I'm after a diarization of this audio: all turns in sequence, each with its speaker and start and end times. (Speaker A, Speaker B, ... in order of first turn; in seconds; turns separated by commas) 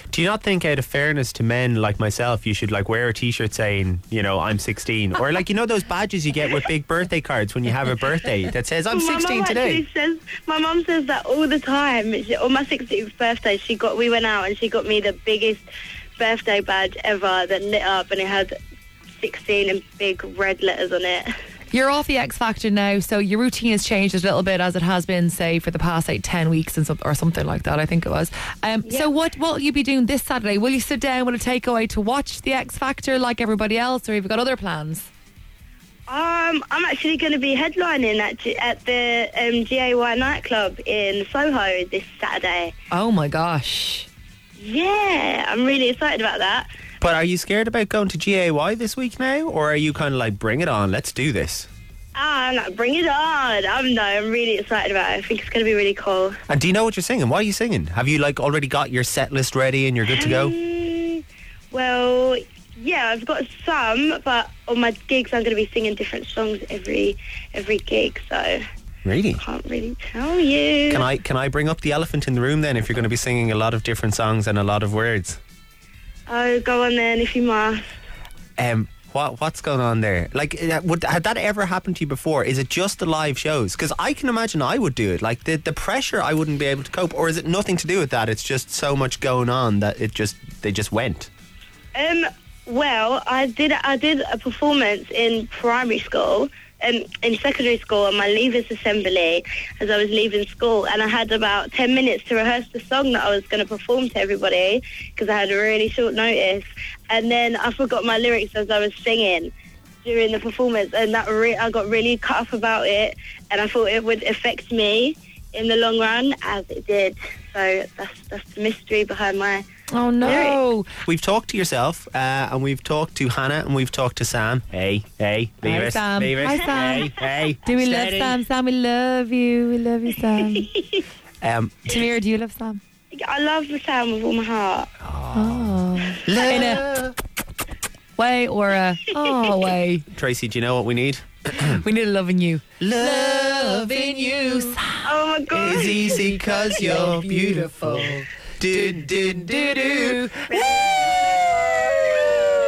Speaker A: 0.1-9.8, Speaker B: 8.9-15.7, Speaker B: 16.2-18.6, Speaker B: 19.2-21.3, Speaker C: 21.7-35.1, Speaker B: 28.9-29.1, Speaker B: 36.1-42.7, Speaker C: 42.9-44.1, Speaker B: 44.6-46.7, Speaker A: 47.0-51.7, Speaker B: 52.1-56.4, Speaker A: 56.5-60.5, Speaker B: 60.1-68.6, Speaker A: 69.0-69.4, Speaker B: 69.4-71.1, Speaker A: 70.9-75.4, Speaker B: 76.3-77.8, Speaker A: 78.6-91.3, Speaker B: 92.0-109.5, Speaker B: 110.0-119.7, Speaker C: 119.9-120.9, Speaker B: 120.2-120.6, Speaker A: 121.0-128.4, Speaker C: 125.6-130.7, Speaker B: 130.5-131.0, Speaker A: 131.4-132.0, Speaker C: 131.9-132.8, Speaker B: 133.1-134.9, Speaker A: 135.0-137.2, Speaker C: 135.3-136.9, Speaker C: 138.2-140.1, Speaker A: 140.1-141.8, Speaker C: 141.6-145.1, Speaker A: 142.8-144.8, Speaker B: 145.0-146.0, Speaker A: 145.5-150.3, Speaker C: 146.1-150.7, Speaker B: 150.5-151.2